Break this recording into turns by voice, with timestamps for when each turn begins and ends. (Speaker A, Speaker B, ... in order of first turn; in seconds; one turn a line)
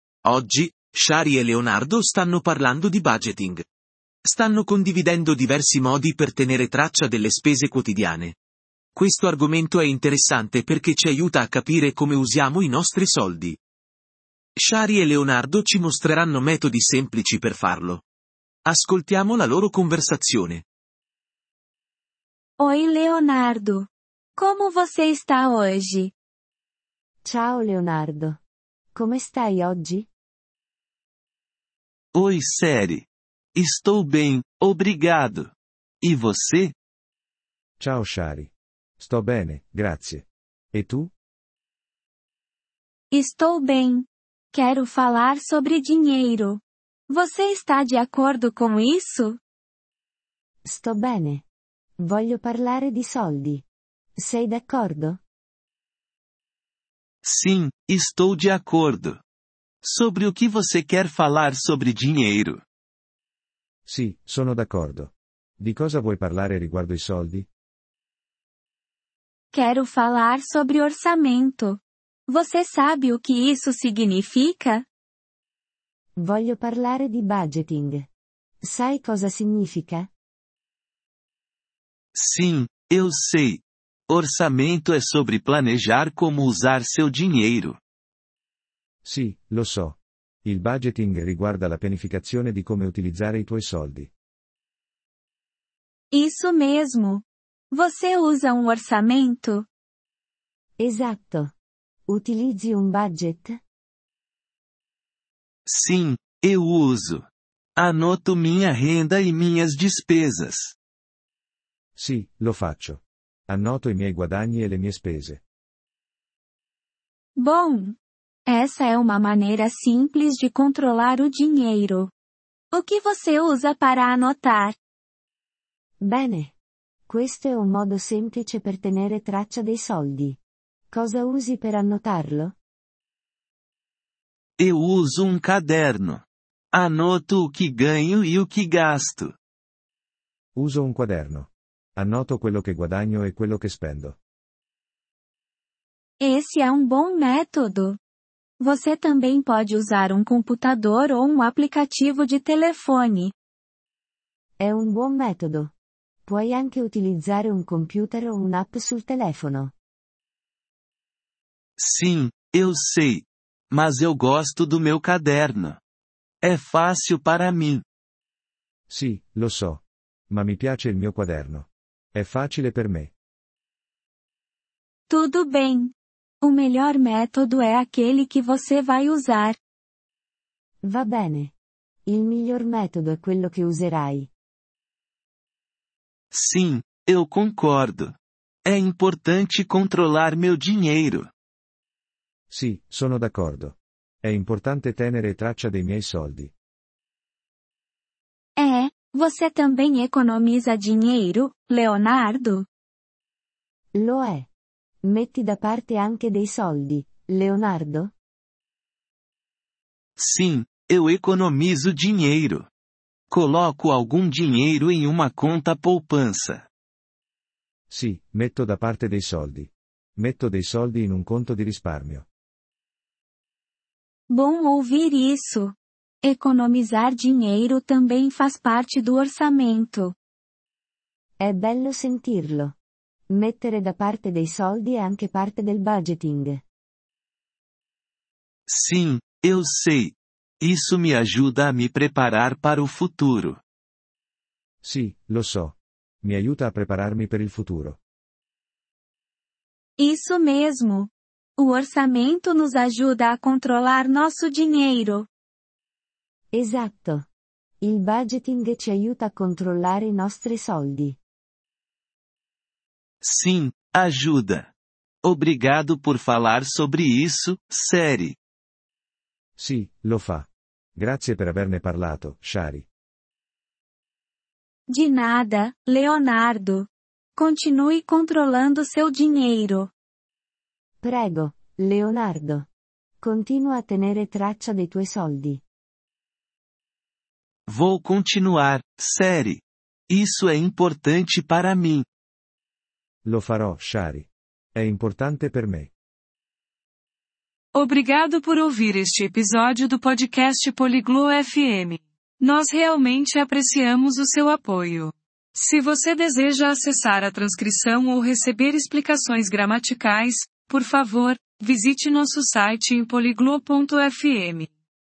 Speaker A: 0.2-3.6
Speaker A: 4.2-8.3
Speaker A: 8.9-13.6
Speaker A: 14.6-18.0
Speaker A: 18.6-20.6
Speaker B: 22.6-26.1
Speaker C: 27.2-28.4
Speaker C: 28.9-30.1
Speaker D: 32.1-36.7
Speaker E: 37.8-41.1
Speaker B: 43.1-49.4
Speaker C: 50.6-51.4
Speaker C: 52.0-53.6
Speaker C: 54.2-55.2
Speaker D: 57.2-59.2
Speaker D: 59.8-62.6
Speaker E: 63.9-67.5
Speaker B: 69.5-74.9
Speaker C: 76.2-78.1
Speaker C: 78.6-80.1
Speaker D: 82.1-87.8
Speaker E: 89.0-94.1
Speaker B: 96.1-99.7
Speaker C: 100.8-101.5
Speaker C: 102.1-103.6
Speaker D: 105.7-107.3
Speaker D: 107.8-110.7
Speaker E: 112.0-115.4
Speaker B: 117.3-122.1
Speaker B: 122.7-124.8
Speaker C: 126.0-126.5
Speaker C: 127.1-130.4
Speaker C: 130.9-132.6
Speaker D: 134.6-139.3
Speaker E: 140.6-144.2
Speaker B: 146.2-148.0
Speaker B: 148.6-153.3
Speaker C: 154.6-155.7
Speaker C: 156.3-159.7
Speaker D: 161.8-165.8
Speaker D: 166.4-167.8
Speaker E: 168.9-173.1
Speaker B: 175.1-179.6
Speaker C: 180.8-181.5
Speaker C: 182.1-184.3
Speaker D: 186.3-191.3
Speaker E: 192.5-196.5
Speaker B: 198.6-202.7
Speaker C: 203.9-204.5
Speaker C: 205.0-208.1
Speaker D: 210.2-212.7
Speaker D: 213.3-216.7
Speaker E: 217.9-222.3
Speaker B: 224.3-230.2
Speaker C: 231.4-232.8
Speaker C: 233.3-236.6
Speaker D: 238.7-243.6
Speaker E: 244.8-248.0
Speaker B: 250.0-255.3
Speaker C: 256.5-257.3
Speaker C: 257.8-261.2
Speaker D: 263.2-264.7
Speaker D: 265.2-268.4
Speaker E: 269.6-272.9
Speaker B: 274.9-279.9
Speaker C: 281.0-282.7
Speaker C: 283.2-285.6
Speaker D: 287.7-292.1
Speaker E: 293.2-295.9
Speaker F: 297.7-314.7